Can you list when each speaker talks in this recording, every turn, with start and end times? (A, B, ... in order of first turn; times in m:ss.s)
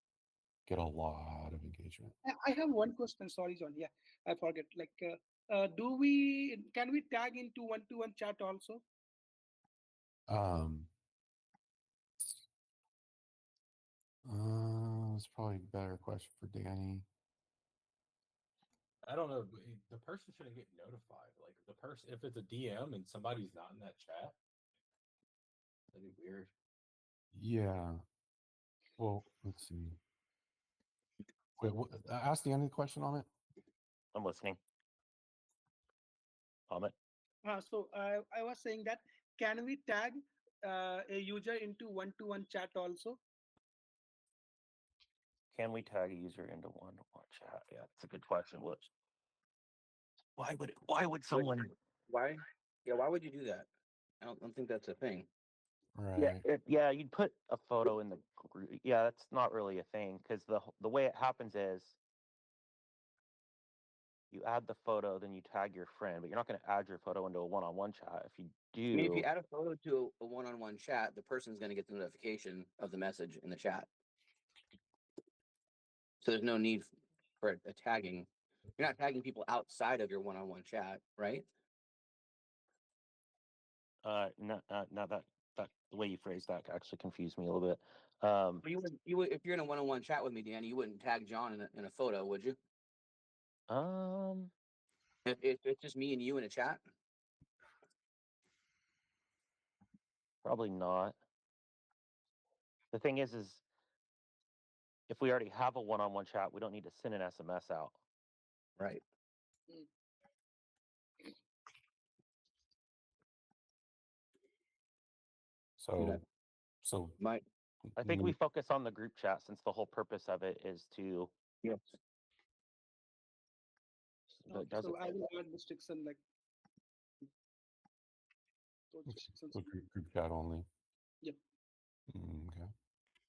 0:00.7-0:02.2 A
0:02.3-0:08.8 B
0:10.3-0:10.9 A
0:14.3-0:17.1 A
0:19.0-0:24.4 C
0:25.9-0:26.5 C
0:27.3-0:28.0 A
0:29.0-0:30.0 A
0:31.6-0:33.3 A
0:34.1-0:34.6 D
0:36.7-0:36.9 D
0:37.4-0:43.2 B
0:45.5-0:48.9 D
0:50.4-0:51.7 D
0:51.3-0:53.7 E
0:54.2-0:55.3 E
0:56.0-0:56.4 A
0:56.2-1:02.0 D
1:04.3-1:09.3 D
1:08.9-1:13.9 E
1:16.2-1:16.9 E
1:17.4-1:21.5 E
1:24.0-1:28.6 D
1:28.6-1:32.6 E
1:33.7-1:34.5 D
1:35.3-1:36.8 E
1:40.4-1:41.2 D
1:42.9-1:43.6 D
1:45.1-1:47.9 D
1:55.8-1:56.2 A
1:56.0-1:56.2 E
1:56.8-1:57.2 A
1:57.9-1:58.4 A
1:58.0-2:01.3 D
2:04.5-2:05.1 D
2:04.5-2:06.2 B
2:08.9-2:09.7 B
2:09.1-2:10.7 A
2:12.1-2:12.7 A